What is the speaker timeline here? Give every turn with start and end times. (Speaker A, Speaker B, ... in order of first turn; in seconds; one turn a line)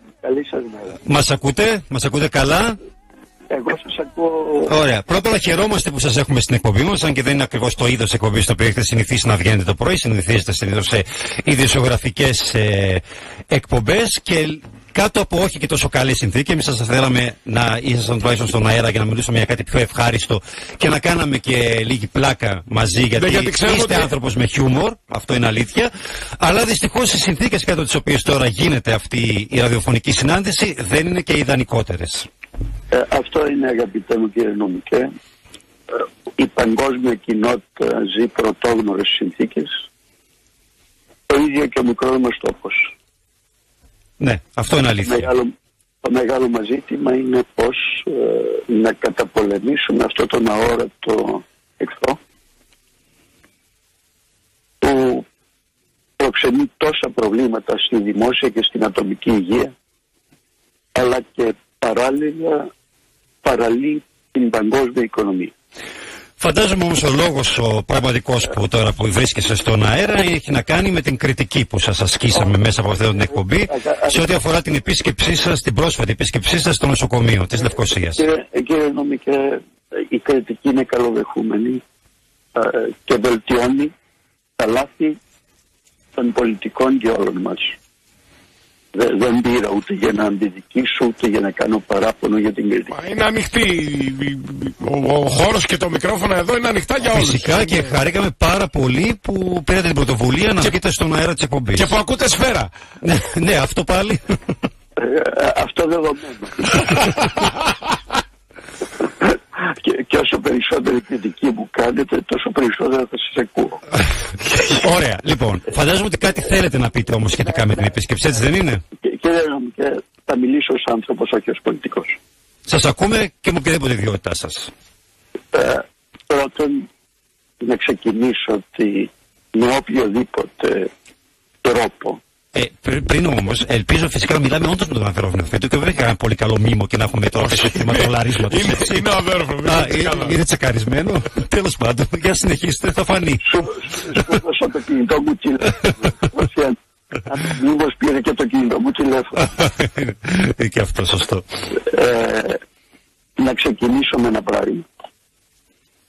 Speaker A: 0.2-1.0
Speaker B: 1.1-2.8
Speaker A: 3.5-4.8
Speaker B: 4.7-32.3
Speaker C: 23.2-24.1
Speaker A: 32.9-35.1
Speaker A: 35.9-39.7
Speaker A: 41.3-42.9
Speaker B: 44.2-45.3
Speaker A: 45.0-45.5
Speaker A: 46.0-52.2
Speaker A: 54.8-55.2
Speaker A: 56.2-59.7
Speaker A: 61.0-62.7
Speaker A: 63.4-65.5
Speaker B: 66.4-78.2
Speaker A: 73.3-74.3
Speaker A: 78.2-81.8
Speaker A: 82.5-83.9
Speaker A: 84.6-85.2
Speaker A: 86.2-87.7
Speaker A: 88.9-93.0
Speaker C: 92.9-97.9
Speaker B: 97.1-101.9
Speaker C: 101.8-102.7
Speaker B: 103.0-104.2
Speaker A: 105.0-107.0
Speaker A: 109.2-113.8
Speaker B: 114.5-118.8
Speaker A: 119.0-122.2
Speaker B: 122.7-124.7
Speaker A: 125.5-126.9
Speaker A: 127.6-130.9
Speaker A: 131.6-132.2
Speaker B: 132.5-139.0
Speaker C: 137.4-140.4
Speaker B: 139.6-143.4
Speaker A: 143.4-149.4
Speaker B: 149.4-151.4
Speaker A: 151.8-152.6
Speaker A: 153.4-154.8